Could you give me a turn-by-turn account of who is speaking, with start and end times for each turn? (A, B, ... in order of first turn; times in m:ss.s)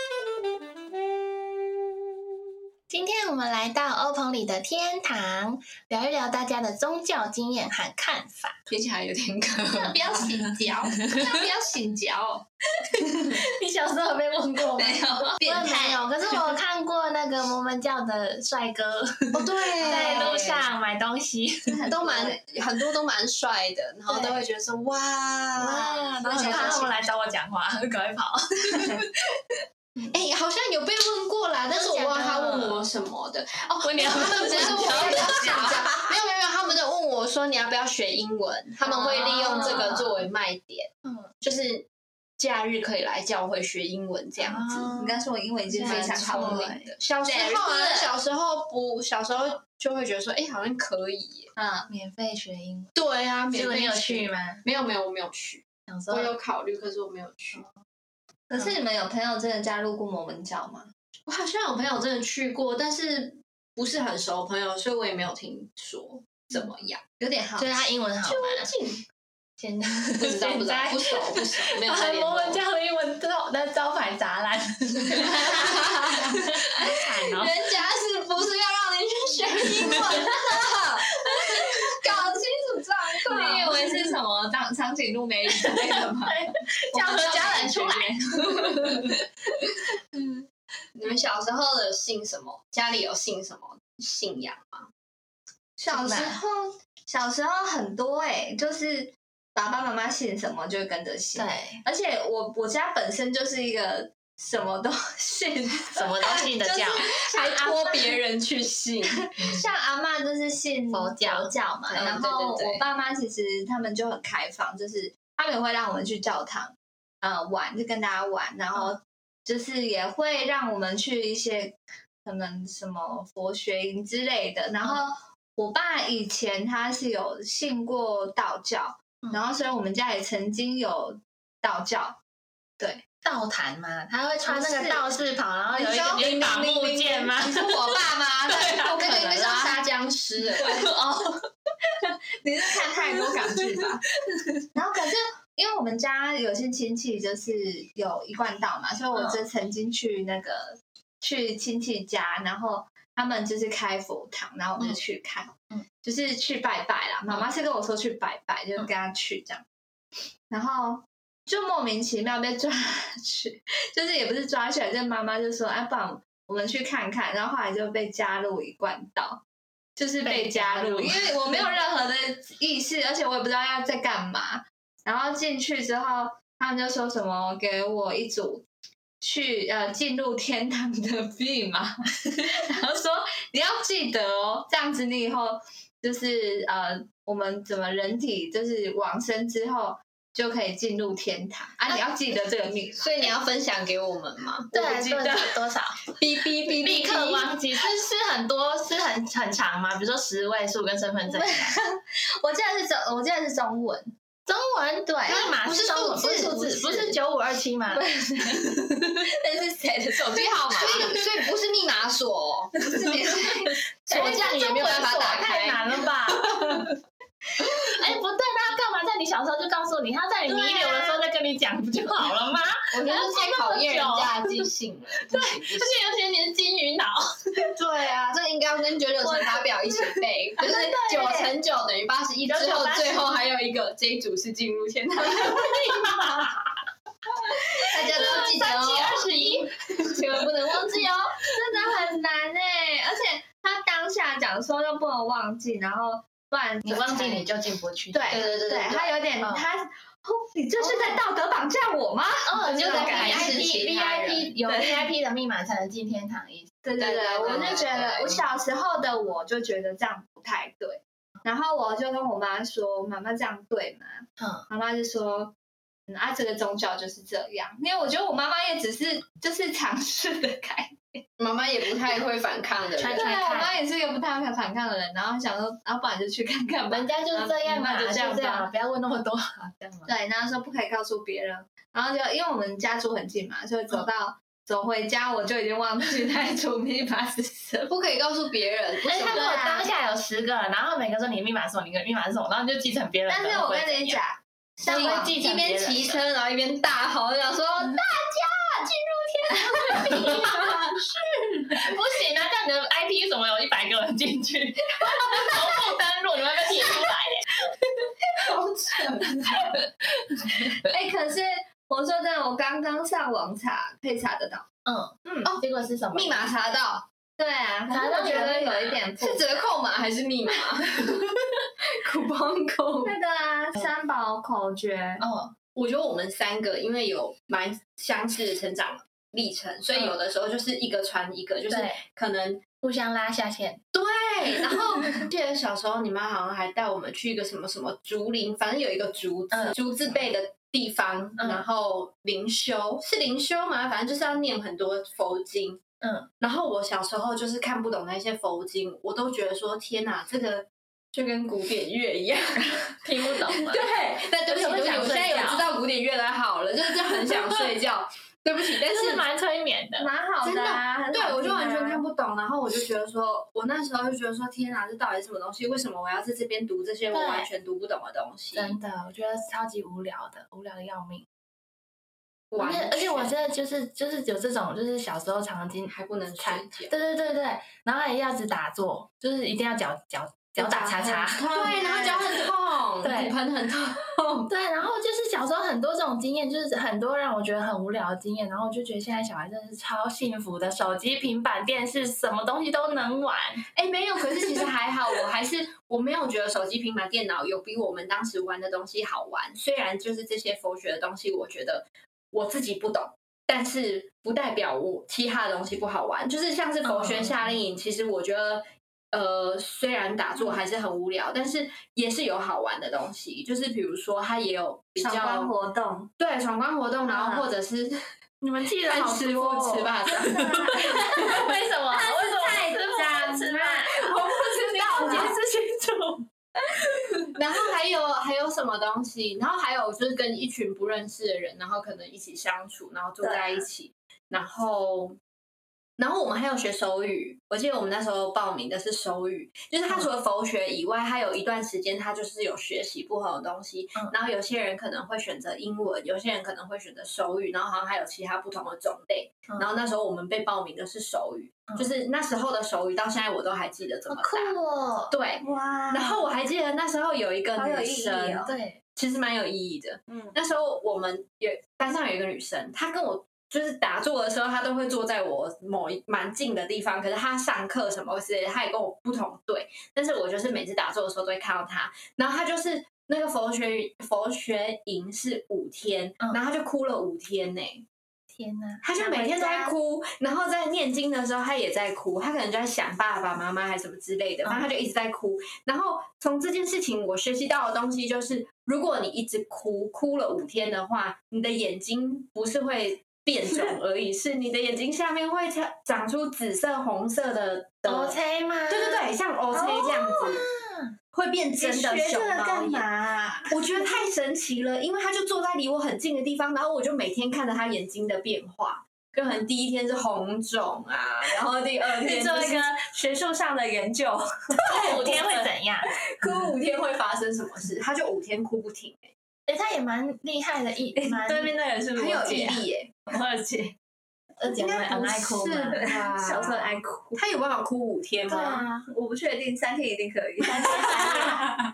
0:02.9-0:08.6 A
0:08.7-0:10.9 B
0:09.8-0:12.4 C
0:13.3-0:21.8 A
0:14.8-0:15.4 B
0:15.3-0:16.0 C
0:19.3-0:20.6 B
0:19.8-0:20.6 C
0:21.7-0:22.4 C
0:21.8-0:27.3 B
0:24.1-0:24.4 A
0:25.6-0:29.0 A
0:26.3-0:26.9 C
0:28.8-0:29.0 B
0:30.1-0:40.9 B
0:31.7-0:32.9 A
0:33.8-0:35.8 A
0:34.4-0:36.1 C
0:38.8-0:39.7 C
0:38.8-0:40.2 A
0:41.4-0:41.9 B
0:42.4-0:44.9 B
0:44.4-0:47.9 A
0:44.9-0:46.9 C
0:45.8-0:51.5 B
0:51.6-0:51.9 C
0:51.9-0:54.6 A
0:53.0-0:57.6 B
0:55.9-0:56.3 A
0:58.5-1:00.9 C
1:01.3-1:07.2 B
1:07.2-1:07.7 C
1:07.6-1:08.7 A
1:08.2-1:09.0 B
1:09.6-1:17.5 A
1:10.2-1:12.6 B
1:15.1-1:22.4 B
1:19.9-1:20.7 C
1:22.0-1:28.0 C
1:23.2-1:23.9 B
1:23.3-1:23.8 A
1:25.5-1:29.1 A
1:27.1-1:29.1 B
1:31.0-1:34.9 B
1:35.8-1:46.5 C
1:35.9-1:36.4 A
1:41.3-1:41.8 A
1:45.9-1:47.0 A
1:46.2-1:49.2 B
1:47.0-1:48.1 C
1:49.4-2:12.2 C
1:50.9-1:51.5 A
1:51.9-1:52.8 B
2:13.2-2:19.7 A
2:14.4-2:15.1 C
2:15.7-2:19.7 C
2:18.8-2:20.8 B
2:20.6-2:21.3 C
2:22.4-2:24.0 C
2:24.7-2:39.6 C
2:29.1-2:29.4 A
2:40.5-2:49.4 C
2:50.0-2:58.6 C
2:50.2-2:51.7 A
2:59.2-3:13.1 C
3:13.0-3:15.4 B
3:14.7-3:16.0 A
3:16.2-3:17.4 B
3:16.8-3:21.7 A
3:21.3-3:24.1 C
3:24.5-3:28.9 A
3:25.3-3:27.2 B
3:28.0-3:31.2 C
3:30.2-3:33.0 B
3:32.8-3:33.8 C
3:34.1-3:35.9 B
3:34.1-3:36.9 A
3:37.6-3:44.7 A
3:40.5-3:41.2 B
3:42.9-3:46.0 B
3:45.3-3:47.7 A
3:47.6-3:56.3 B
3:49.2-3:51.5 A
3:52.5-3:53.4 A
3:55.5-3:56.5 A
3:57.5-4:01.4 B
3:57.9-3:58.6 C
3:58.0-3:59.7 A
4:01.4-4:07.5 C
4:06.8-4:08.5 A
4:08.1-4:13.6 C
4:08.3-4:09.1 B
4:09.4-4:09.6 A
4:10.8-4:11.2 A
4:12.4-4:16.7 A
4:12.8-4:14.5 B
4:14.6-4:15.1 C
4:16.8-4:25.5 C
4:17.0-4:18.4 B
4:17.4-4:18.0 A
4:24.4-4:24.6 A
4:26.1-4:31.0 C
4:31.4-4:33.3 B
4:33.0-4:33.8 A
4:33.1-4:38.7 C
4:36.9-4:40.1 A
4:40.0-4:47.9 C
4:47.9-4:49.6 B
4:49.0-4:54.2 A
4:49.2-4:49.9 C
4:53.3-4:55.3 C
4:54.8-4:56.2 A
4:54.9-5:00.8 B
4:59.7-5:00.4 C
5:00.0-5:00.4 A
5:01.7-5:07.5 A
5:08.3-5:09.6 B
5:09.4-5:10.7 A
5:10.8-5:14.7 C
5:14.8-5:16.5 A
5:15.2-5:15.6 C
5:16.1-5:17.0 B
5:17.4-5:19.6 C
5:17.9-5:19.0 A
5:19.2-5:21.2 B
5:21.9-5:23.1 B
5:23.0-5:25.2 C
5:25.2-5:25.5 A
5:25.7-5:32.6 B
5:31.7-5:32.0 A
5:32.8-5:33.8 A
5:33.9-5:45.8 B
5:34.7-5:35.2 A
5:41.4-5:41.6 A
5:46.0-5:46.3 A
5:46.4-5:59.2 B
5:53.0-5:53.9 A
5:54.4-5:55.7 A
5:57.3-5:57.6 A
5:58.8-6:00.1 A
6:00.0-6:02.0 C
6:00.4-6:08.8 B
6:07.1-6:07.5 A
6:08.5-6:11.2 A
6:12.5-6:13.3 B
6:12.6-6:22.4 A
6:15.9-6:17.0 B
6:20.6-6:24.5 B
6:23.0-6:23.3 A
6:24.5-6:33.6 A
6:33.7-6:55.5 B
6:46.8-6:47.4 A
6:55.0-6:56.1 C
6:56.2-6:58.0 B
6:57.1-6:57.5 C
6:58.4-7:06.2 A
6:58.8-7:00.6 B
7:00.3-7:01.0 C
7:01.9-7:03.8 C
7:03.9-7:05.3 B
7:05.0-7:05.3 C
7:07.3-7:15.2 B
7:13.2-7:13.6 C
7:16.0-7:57.8 B
7:34.1-7:35.2 A
7:35.4-7:36.2 C
7:37.5-7:38.5 C
7:38.4-7:38.8 A
7:58.3-7:59.7 A
7:58.8-8:20.4 B
8:17.8-8:20.9 A
8:21.1-8:22.8 B
8:21.6-8:23.9 A
8:23.5-8:32.7 B
8:32.2-8:32.5 A
8:33.1-8:34.2 C
8:34.6-8:39.1 B
8:34.6-8:36.3 A
8:39.5-8:42.6 A
8:41.9-8:43.0 B
8:44.4-8:46.8 A
8:44.6-8:48.7 B
8:45.4-8:47.2 C
8:48.3-8:51.4 C
8:50.4-8:51.5 A
8:50.9-8:51.3 B